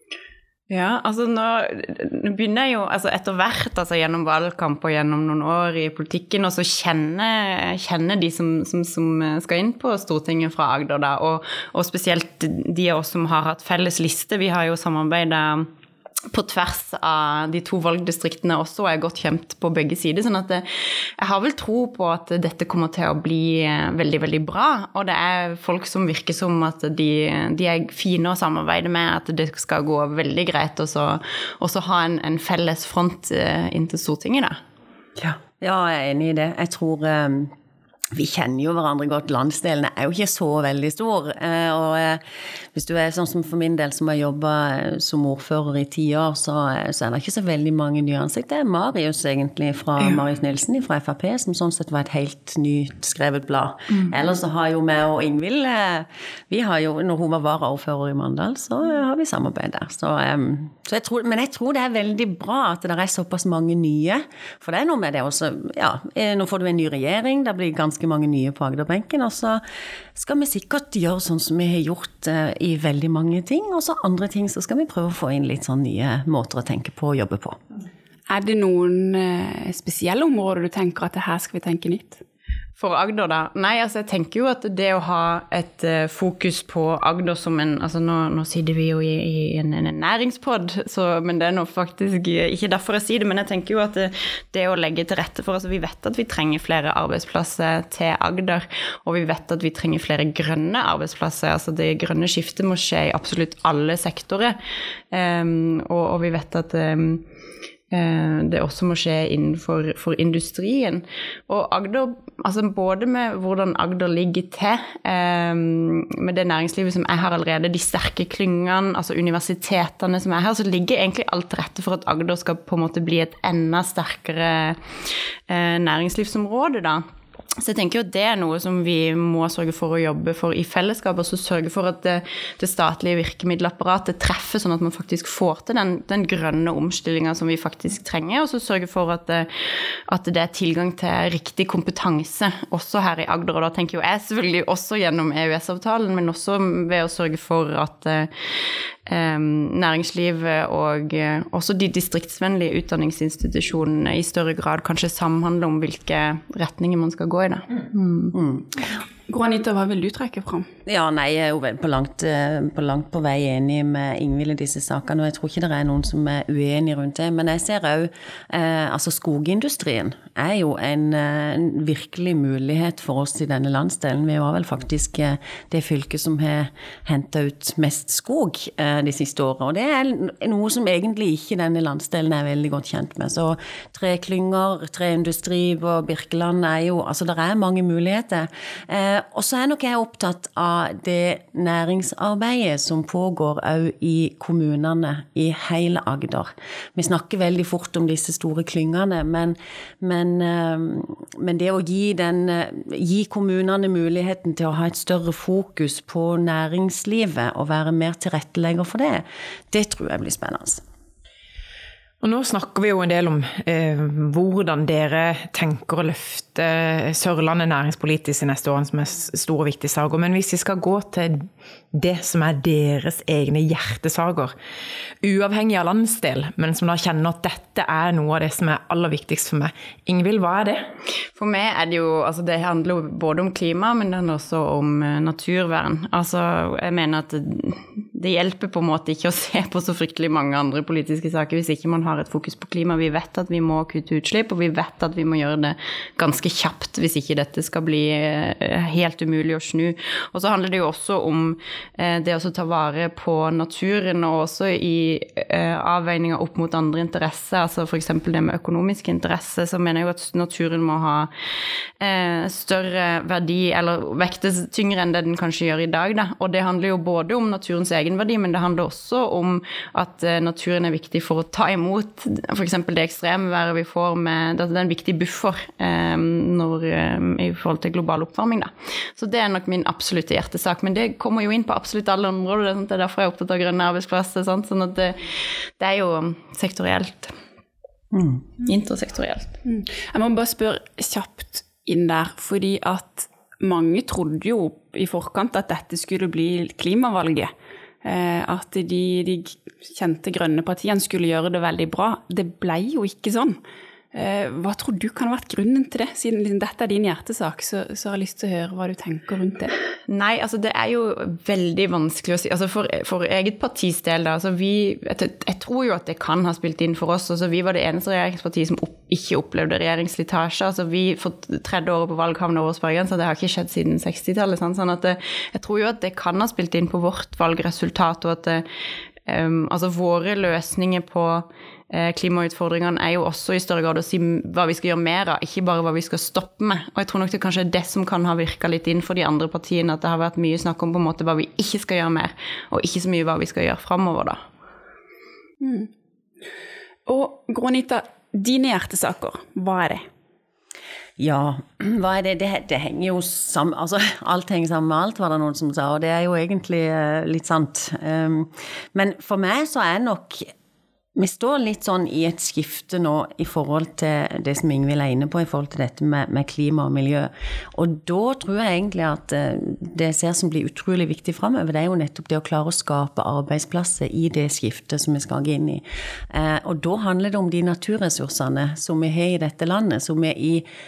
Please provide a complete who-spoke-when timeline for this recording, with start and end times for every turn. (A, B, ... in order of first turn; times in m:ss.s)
0:00.7-0:15.7 A
0:16.3-0:34.6 A
0:35.2-0:37.5 B
0:38.1-0:42.2 B
0:42.7-1:09.6 B
1:10.1-1:17.6 B
1:18.3-1:22.2 C
1:22.8-1:44.6 A
1:45.1-1:47.2 A
1:47.9-2:07.0 A
2:07.6-2:38.3 A
2:38.3-2:38.8 B
2:39.3-2:40.7 C
2:40.9-3:30.8 B
3:32.2-3:44.5 D
3:45.2-3:50.9 D
3:51.4-4:21.3 A
4:22.0-4:47.3 A
4:48.1-4:48.4 B
4:48.6-4:49.5 A
4:49.6-4:57.5 C
4:58.0-5:03.6 C
5:04.1-5:09.7 C
5:10.1-5:28.6 A
5:29.2-5:44.4 A
5:45.6-5:45.9 C
5:47.1-5:50.0 C
5:51.2-6:00.5 B
6:01.2-6:20.6 B